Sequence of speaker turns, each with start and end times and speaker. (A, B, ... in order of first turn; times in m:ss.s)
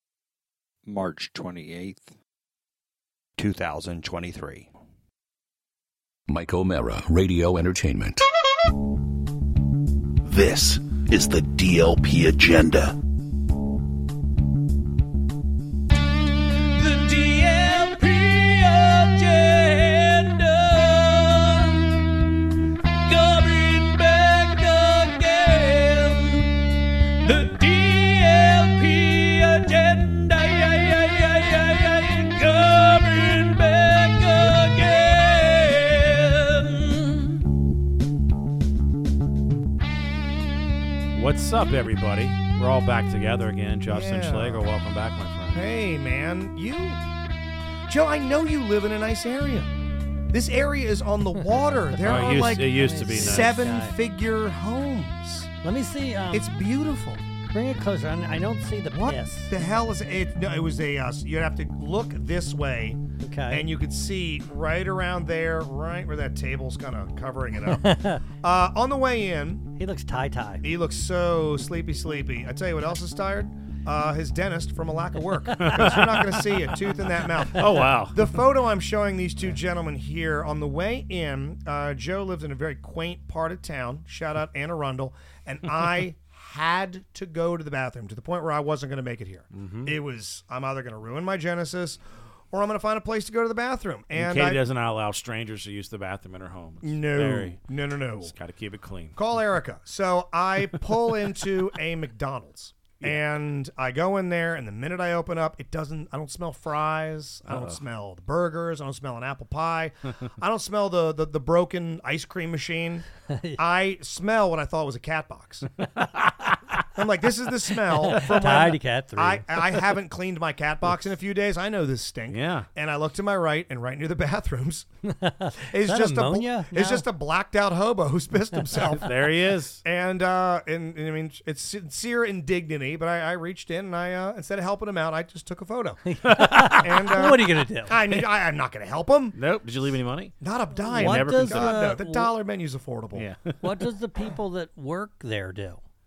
0:00.8-0:02.1 A
0:03.4-0:04.7 A
0:06.3-0:08.2 B
0:10.2-0:13.0 C
0:16.5-0:22.2 A
0:22.9-0:37.4 A
0:41.1-0:45.6 D
0:43.9-0:44.7 E
0:45.5-0:47.0 E
0:47.9-0:49.7 E
0:50.3-0:55.5 E
0:52.0-0:54.0 F
0:52.0-0:53.6 D
0:55.6-0:56.5 F
0:56.3-0:57.2 E
0:57.5-0:59.5 F
0:58.9-1:09.7 E
1:03.2-1:03.7 F
1:07.6-1:08.2 F
1:09.8-1:10.6 F
1:10.6-1:32.0 E
1:15.6-1:16.8 D
1:17.4-1:18.3 D
1:29.5-1:29.9 D
1:32.5-1:34.6 E
1:34.1-1:37.6 D
1:36.8-1:38.3 E
1:38.2-1:39.2 D
1:39.2-1:53.1 E
1:47.5-1:47.8 D
1:53.3-1:53.6 F
1:53.6-1:55.7 E
1:56.0-1:56.6 D
1:56.9-2:04.9 E
1:58.0-1:59.8 F
2:02.3-2:02.7 D
2:05.0-2:07.0 F
2:05.6-2:09.2 E
2:08.7-2:09.8 D
2:09.8-2:16.1 E
2:16.1-2:18.0 F
2:16.2-2:17.0 D
2:16.7-2:19.4 E
2:19.3-2:20.3 D
2:20.4-2:23.3 E
2:20.9-2:21.8 D
2:20.9-2:22.3 F
2:23.1-2:23.7 D
2:23.6-2:25.8 F